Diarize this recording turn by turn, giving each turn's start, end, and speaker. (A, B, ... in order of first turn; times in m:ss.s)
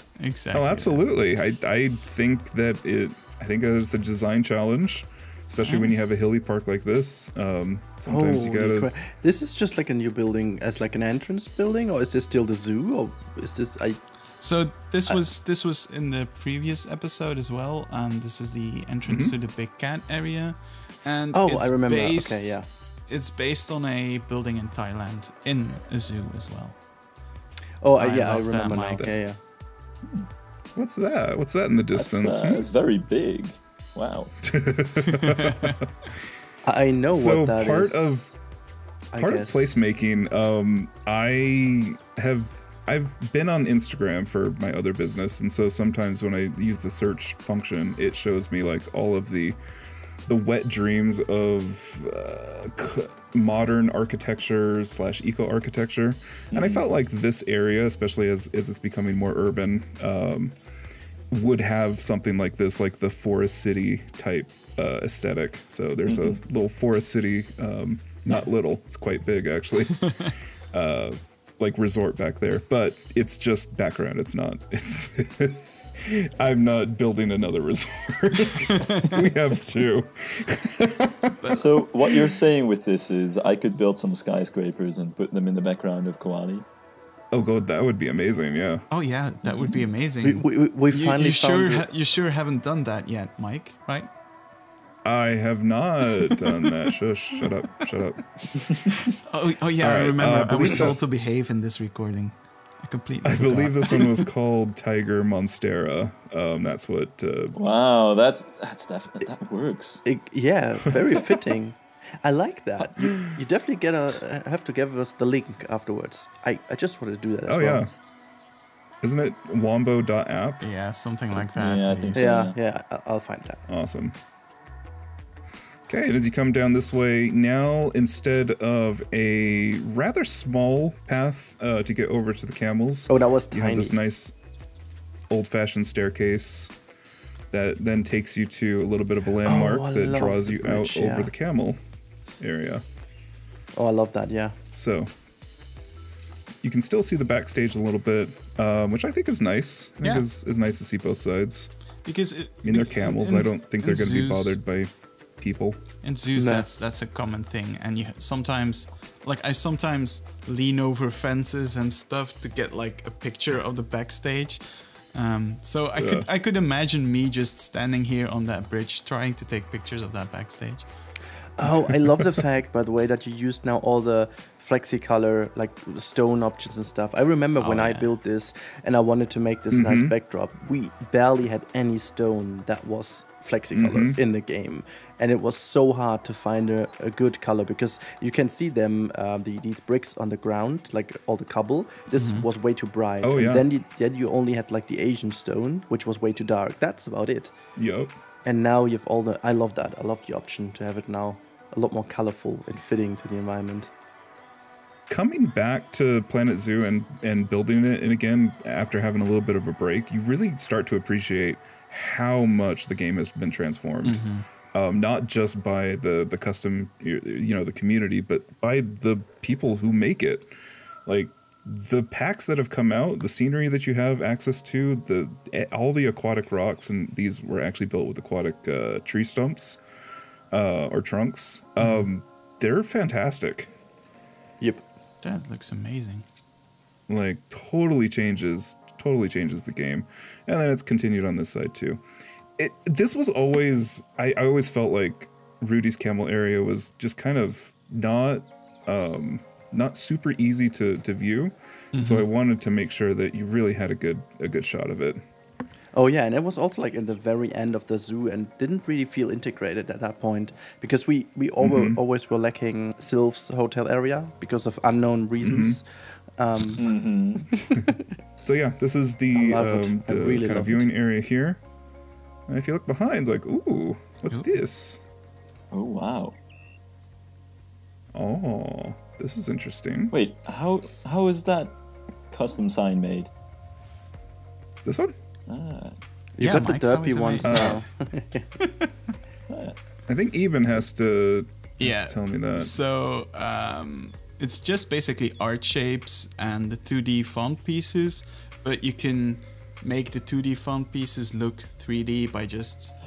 0:00.2-0:01.0 A
0:00.5-0:08.9 B
0:05.6-0:06.0 A
0:08.1-0:14.0 C
0:14.4-0:26.8 A
0:19.1-0:19.4 B
0:21.3-0:22.6 C
0:27.8-0:29.4 C
0:28.0-0:29.1 A
0:30.8-0:32.6 B
0:31.9-0:34.4 D
0:34.4-0:36.1 B
0:35.1-0:35.8 A
0:36.6-0:38.0 C
0:37.1-0:38.3 B
0:39.1-0:39.6 C
0:39.2-0:49.6 B
0:50.3-1:00.6 B
0:56.5-0:56.8 D
1:01.3-1:10.1 B
1:06.1-1:06.4 D
1:10.0-1:10.3 A
1:10.7-1:21.6 B
1:18.8-1:19.1 A
1:21.5-1:26.6 D
1:27.3-1:28.9 B
1:28.9-1:34.1 A
1:30.2-1:31.8 C
1:35.0-1:38.6 B
1:39.1-1:44.2 A
1:39.8-1:41.0 B
1:43.2-1:47.6 B
1:47.6-1:50.0 D
1:50.0-1:57.9 C
1:53.0-1:53.3 B
1:57.5-1:57.9 B
1:59.0-2:00.7 B
2:00.6-2:02.2 A
2:01.3-2:02.6 D
2:02.1-2:03.6 C
2:03.7-2:04.2 B
2:05.9-2:14.3 B
2:13.1-2:14.0 C
2:15.3-2:16.7 B
2:17.5-2:21.8 B
2:19.4-2:21.3 C
2:22.4-2:22.8 B
2:23.8-2:24.6 C
2:24.8-2:25.1 B
2:26.6-2:31.7 B
2:32.0-2:34.6 A
2:32.6-2:35.8 B
2:36.0-2:50.9 A
2:36.4-2:36.7 C
2:46.0-2:46.3 B
2:51.6-3:17.5 C
2:51.6-2:52.4 B
2:57.6-2:58.1 A
2:59.7-3:00.1 B
3:03.7-3:04.2 B
3:12.2-3:12.5 A
3:13.2-3:13.7 B
3:17.8-3:18.1 B
3:18.4-3:23.9 C
3:25.1-3:40.5 B
3:34.0-3:34.5 A
3:41.1-3:49.8 B
3:50.5-3:53.7 B
3:55.2-3:56.2 A
3:57.1-4:02.0 B
4:02.6-4:15.2 B
4:11.9-4:12.2 A
4:15.9-4:25.9 C
4:21.6-4:22.0 B
4:25.4-4:25.8 B
4:26.4-4:26.9 C
4:26.8-4:27.5 D
4:27.5-4:27.9 B
4:27.5-4:28.0 C
4:28.4-4:31.6 B
4:29.3-4:30.9 C
4:32.5-4:35.0 B
4:35.7-4:36.4 D
4:38.1-4:40.1 B
4:40.1-4:41.8 D
4:42.3-4:43.3 D
4:44.8-4:45.1 B
4:45.5-4:46.0 D
4:46.4-4:48.5 C
4:46.4-4:47.8 A
4:47.4-4:47.8 B
4:49.5-4:49.8 D
4:50.1-4:52.8 B
4:51.8-5:03.0 A